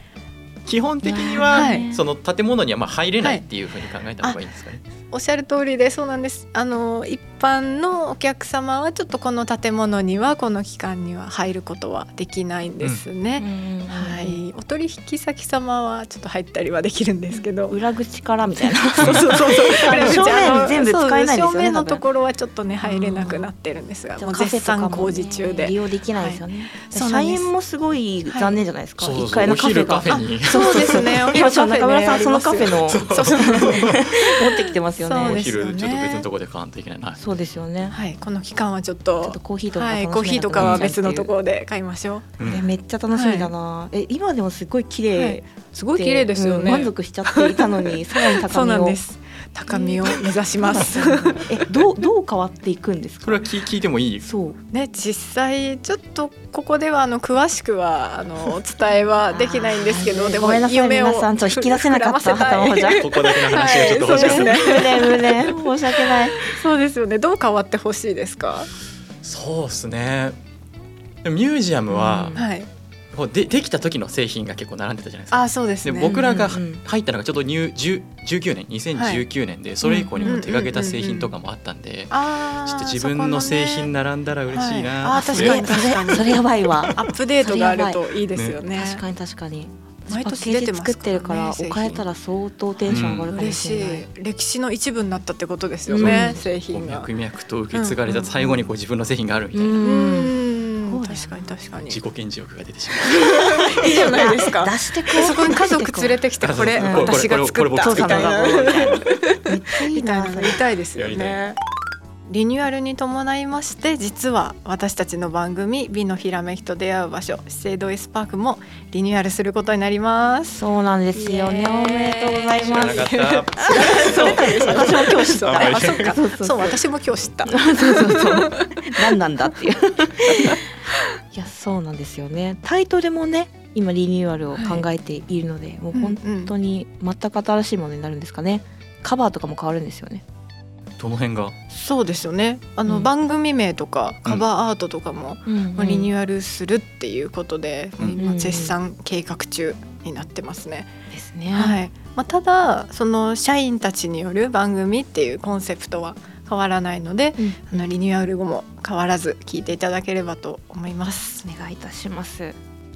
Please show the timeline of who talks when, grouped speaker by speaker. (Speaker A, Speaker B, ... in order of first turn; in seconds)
Speaker A: 0.7-4.8, 29.0-30.8, 32.7-34.0, 35.2-37.2, 40.6-40.9, 42.4-42.7, 53.2-54.3, 62.9-65.0, 69.2-70.4, 71.2-72.4, 73.1-87.0, 92.9-93.3, 96.0-99.8, 101.8-103.3, 106.4-109.0, 111.0-111.4, 122.6-124.8, 125.4-126.1, 141.0-141.5
Speaker B: 1.0-2.0, 13.4-14.4, 17.3-22.0, 22.8-23.5, 24.2-35.5, 37.2-38.0, 39.2-41.3, 42.4-49.0, 49.7-53.5, 54.2-54.6, 59.3-66.4, 71.9-72.4, 76.2-76.8, 79.8-80.4, 85.2-88.0, 88.7-94.1, 95.9-96.4, 99.5-101.5, 103.7-106.2, 106.8-107.2, 107.8-110.6, 120.5-126.8, 127.5-130.7, 131.3-140.2, 145.4-146.1, 148.1-148.8, 151.1-151.8, 157.4-157.6, 161.4-162.6
Speaker C: 1.4-1.9, 5.1-17.8, 18.6-27.5, 28.3-28.6, 30.1-36.3, 37.9-42.3, 43.1-43.5, 45.1-51.6, 54.7-68.7, 72.3-72.7, 75.3-76.5, 78.9-79.2, 80.2-81.3, 82.1-83.9, 84.5-89.0, 90.1-92.0, 93.3-97.1, 97.7-98.5, 99.8-102.0, 103.1-111.6, 112.2-129.2, 130.3-130.6, 134.5-134.9, 135.9-136.5, 141.7-150.9, 151.5-161.4